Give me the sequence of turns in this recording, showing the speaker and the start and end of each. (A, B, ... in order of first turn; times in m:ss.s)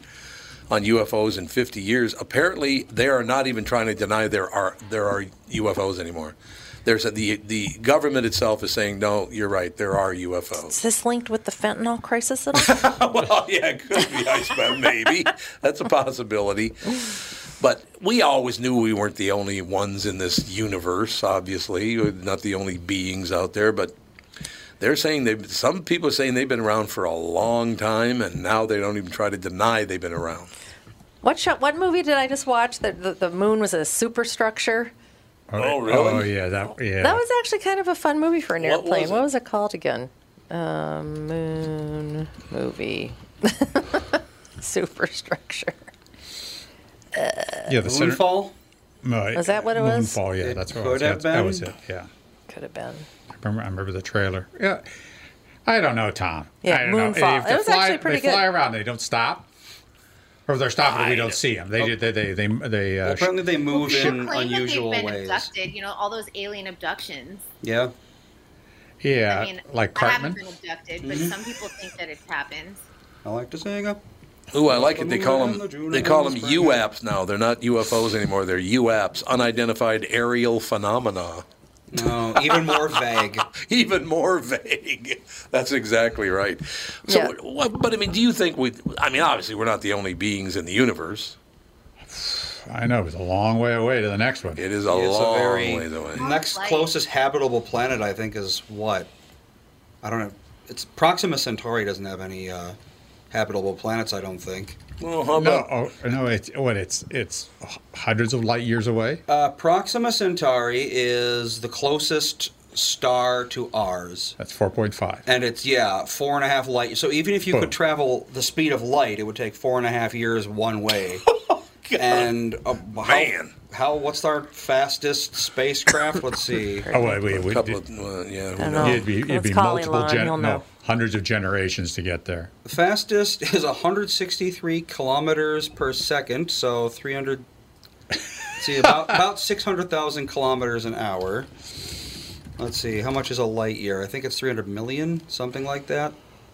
0:00.7-0:10.7 A
0:10.7-0:12.8 B
0:12.5-0:17.0 A
0:17.6-0:23.9 A
0:24.8-0:30.5 A
0:31.2-0:34.9 B
0:35.5-0:37.2 C
0:35.6-0:36.3 A
0:37.0-0:45.9 B
0:38.6-0:39.2 A
0:47.1-0:47.7 B
0:47.7-0:48.2 C
0:47.8-0:48.5 D
0:49.0-0:52.1 C
0:49.3-0:50.2 B
0:50.4-0:51.7 D
0:52.5-0:53.1 B
0:53.4-0:54.9 C
0:55.6-0:59.5 C
0:56.6-0:58.4 B
1:00.5-1:04.2 C
1:00.8-1:01.4 A
1:03.0-1:05.5 D
1:03.7-1:07.4 E
1:07.6-1:07.9 D
1:09.0-1:10.4 C
1:09.3-1:12.8 E
1:11.0-1:11.4 D
1:13.2-1:14.0 D
1:14.5-1:21.4 A
1:14.6-1:16.8 D
1:21.9-1:23.4 D
1:22.3-1:23.0 A
1:23.5-1:31.4 A
1:27.1-1:27.3 B
1:32.1-1:34.6 C
1:34.6-1:36.2 A
1:34.9-1:39.1 D
1:36.2-1:36.9 E
1:40.0-1:42.8 D
1:43.3-1:44.8 D
1:45.0-1:45.7 A
1:45.3-1:49.2 C
1:49.3-1:54.4 D
1:54.4-1:55.2 C
1:55.3-2:01.2 D
2:01.2-2:02.3 A
2:02.0-2:06.9 D
2:03.0-2:03.5 A
2:06.8-2:07.2 B
2:06.9-2:07.8 C
2:07.3-2:09.0 A
2:08.6-2:10.6 B
2:08.7-2:12.5 C
2:12.6-2:17.5 D
2:18.6-2:21.5 D
2:22.6-2:26.2 D